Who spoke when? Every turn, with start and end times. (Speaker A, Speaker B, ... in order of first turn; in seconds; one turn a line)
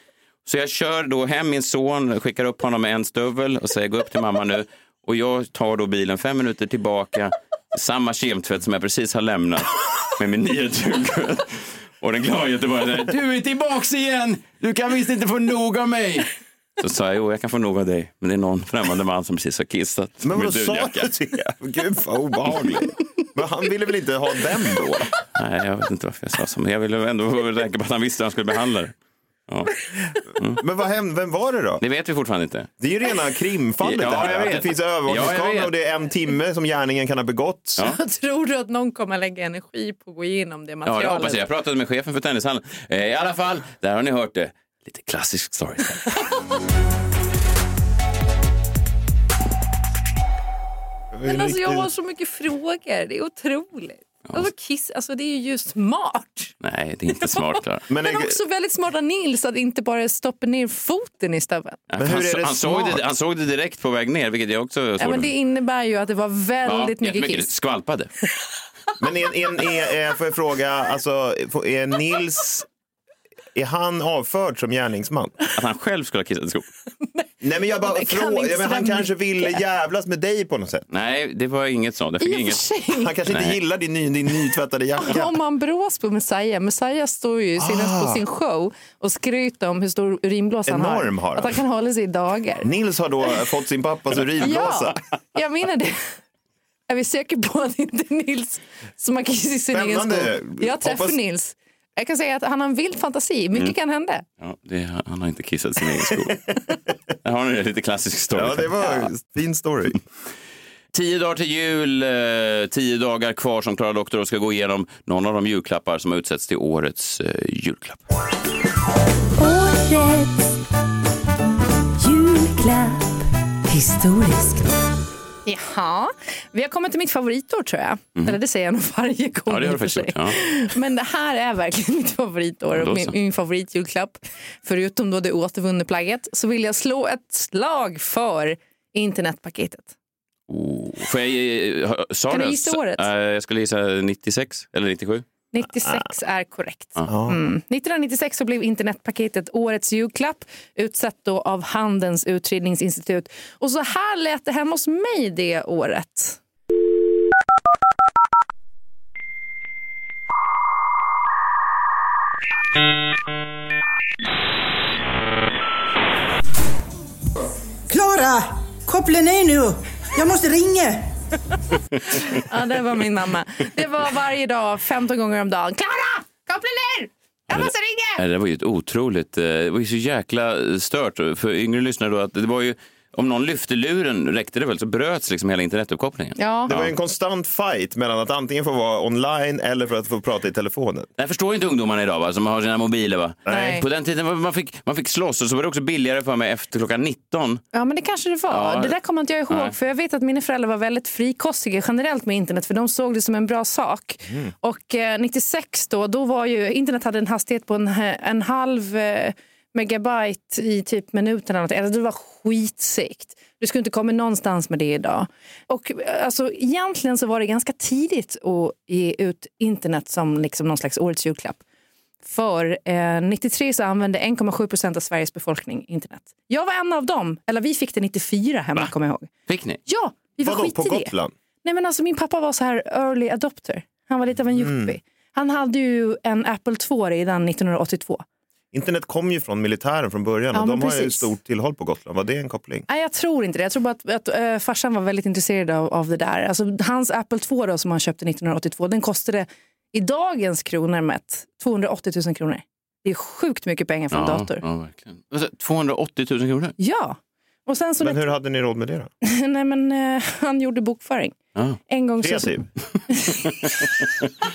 Speaker A: 0.5-21.1
Speaker B: 20.2-25.2
Speaker A: 25.3-28.9
Speaker A: 29.5-29.7
Speaker B: 30.6-31.8
Speaker A: 31.8-32.7
Speaker B: 32.8-37.8
Speaker A: 33.8-35.7
Speaker C: 37.8-41.5
Speaker A: 40.9-46.1
Speaker B: 51.1-51.9
Speaker C: 51.2-56.5
Speaker A: 56.6-57.8
Speaker C: 57.2-61.8
Speaker B: 57.9-58.4
Speaker A: 61.9-65.3
Speaker B: 62.0-63.0
Speaker C: 65.0-67.5
Speaker A: 66.7-68.1
Speaker B: 69.0-72.7
Speaker B: 73.5-75.4
Speaker A: 75.5-76.7
Speaker B: 77.4-80.9
Speaker C: 77.8-79.6
Speaker A: 80.9-82.6
Speaker C: 82.2-83.1
Speaker B: 83.0-85.3
Speaker A: 83.3-83.6
Speaker C: 85.0-92.7
Speaker B: 87.6-88.2
Speaker B: 90.7-91.6
Speaker B: 92.6-95.0
Speaker C: 94.4-96.2
Speaker C: 96.9-104.2
Speaker B: 99.7-101.2
Speaker A: 104.4-106.5
Speaker A: 107.2-108.8
Speaker B: 108.3-110.0
Speaker A: 110.9-118.0
Speaker D: 119.4-120.5
Speaker D: 122.0-124.7
Speaker C: 125.5-139.9
Speaker A: 129.5-130.4
Speaker A: 132.8-133.1
Speaker A: 140.5-145.2
Speaker C: 142.3-143.1
Speaker C: 145.5-156.4
Speaker B: 145.7-146.1
Speaker B: 147.1-147.4
Speaker E: 167.9-171.1
Speaker C: 172.3-178.2
Speaker A: 177.5-186.9
Speaker C: 186.4-186.7
Speaker B: 186.7-191.1
Speaker A: 191.2-197.6
Speaker B: 193.5-193.8
Speaker C: 193.5-193.8
Speaker C: 197.7-221.6
Speaker A: 198.5-199.0
Speaker A: 199.5-199.8
Speaker C: 222.2-229.3
Speaker A: 229.5-229.8
Speaker C: 229.9-231.1
Speaker B: 230.4-231.3
Speaker C: 231.6-238.2
Speaker B: 234.6-234.9
Speaker B: 238.7-242.8
Speaker C: 240.5-241.3
Speaker C: 242.9-254.6
Speaker A: 254.1-256.8
Speaker C: 256.8-258.3
Speaker B: 258.0-259.1
Speaker C: 259.2-261.4
Speaker A: 261.6-261.8
Speaker C: 261.9-262.6
Speaker B: 262.2-262.7
Speaker C: 263.1-263.4
Speaker A: 263.4-264.3